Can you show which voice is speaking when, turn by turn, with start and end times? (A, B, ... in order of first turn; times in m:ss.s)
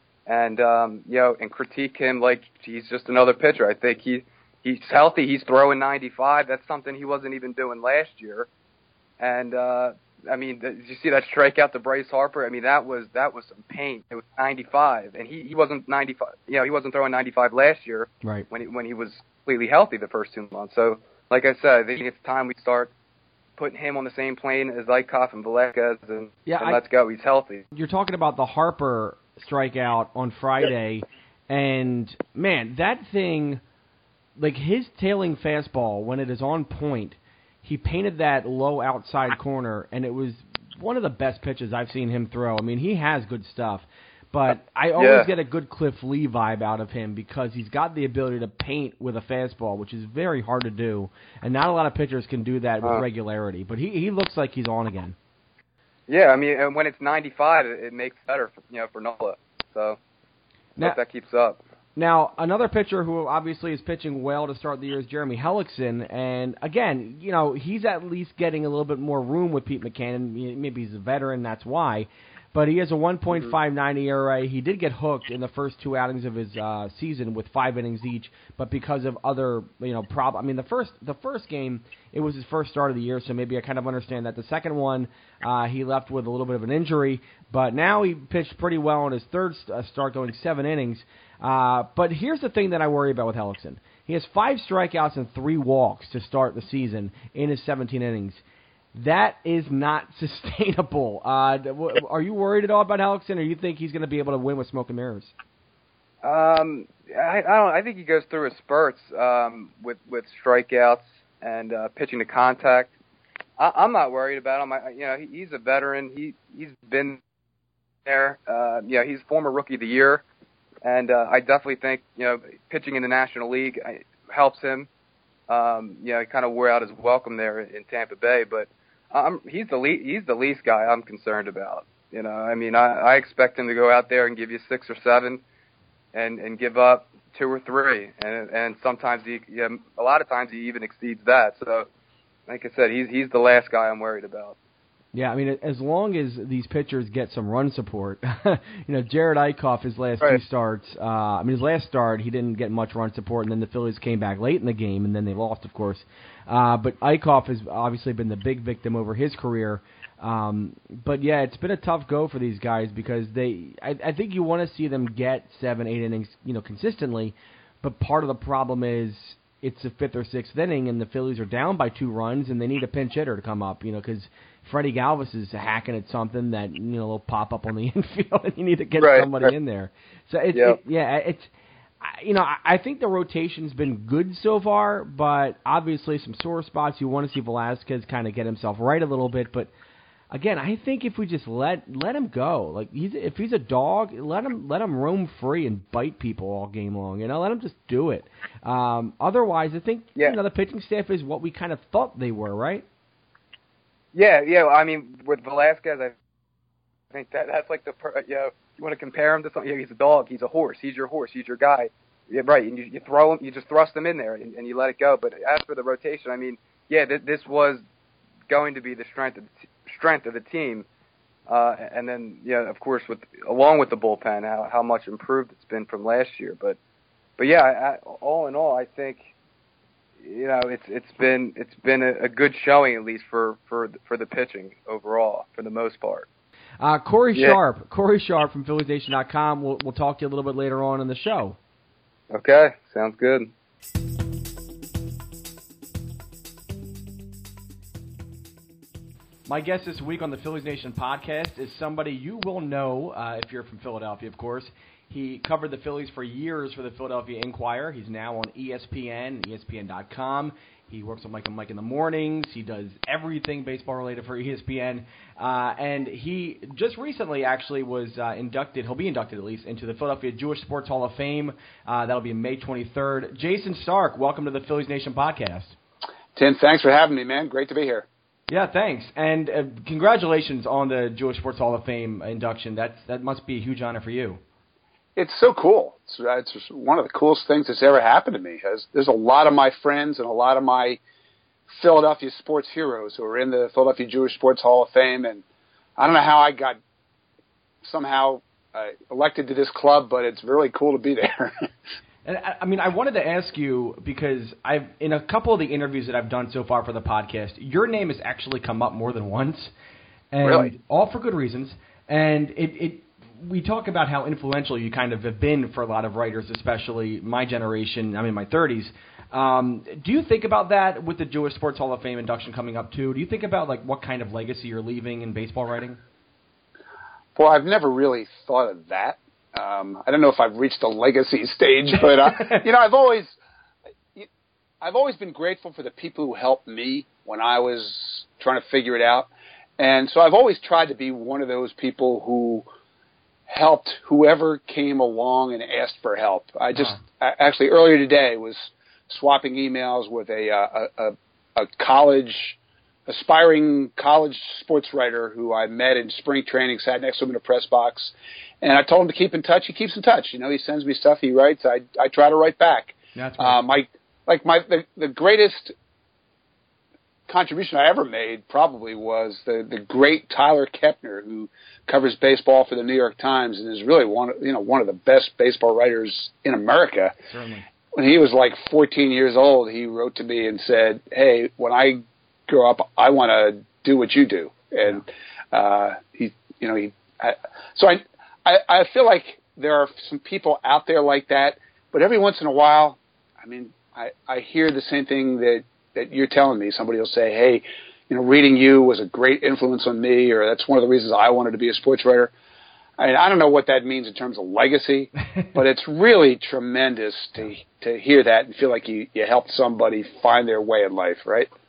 0:00.3-0:08.5 A
0:09.2-0:22.9 A
0:23.6-0:27.6 A
0:26.4-0:26.8 B
0:27.7-0:33.6 B
0:34.4-0:55.2 B
0:45.0-0:45.3 A
0:56.1-1:00.0 A
1:00.8-1:01.6 A
1:02.0-1:38.4 B
1:38.9-1:45.3 B
1:46.2-1:52.9 A
1:53.6-1:57.2 A
1:58.1-2:00.2 A
2:00.8-2:04.9 A
2:05.5-2:15.4 A
2:16.1-2:21.9 A
2:22.5-2:24.6 A
2:25.1-3:09.7 B
2:59.0-2:59.5 A
3:00.5-3:00.8 A
3:10.3-3:22.8 B
3:24.1-3:26.2 A
3:27.1-3:37.8 A
3:38.5-3:40.9 A
3:41.5-3:46.8 A
3:47.4-3:49.3 A
3:50.2-3:56.3 A
3:56.8-4:01.6 B
4:02.3-4:03.5 A
4:09.5-4:35.8 B
4:36.4-4:38.1 C
4:38.5-4:44.4 B
4:45.2-4:51.0 C
4:51.7-4:55.4 C
4:56.0-4:56.8 C
4:57.8-5:01.5 C
5:02.2-5:09.7 B
5:10.3-5:26.0 B
5:10.4-5:10.7 C
5:27.4-5:33.4 C
5:32.3-5:32.6 B
5:34.8-5:42.7 C
5:43.5-6:05.7 C
6:03.2-6:03.6 B
6:07.3-6:17.1 C
6:17.3-6:17.6 B
6:17.9-6:42.3 C
6:43.0-6:51.5 C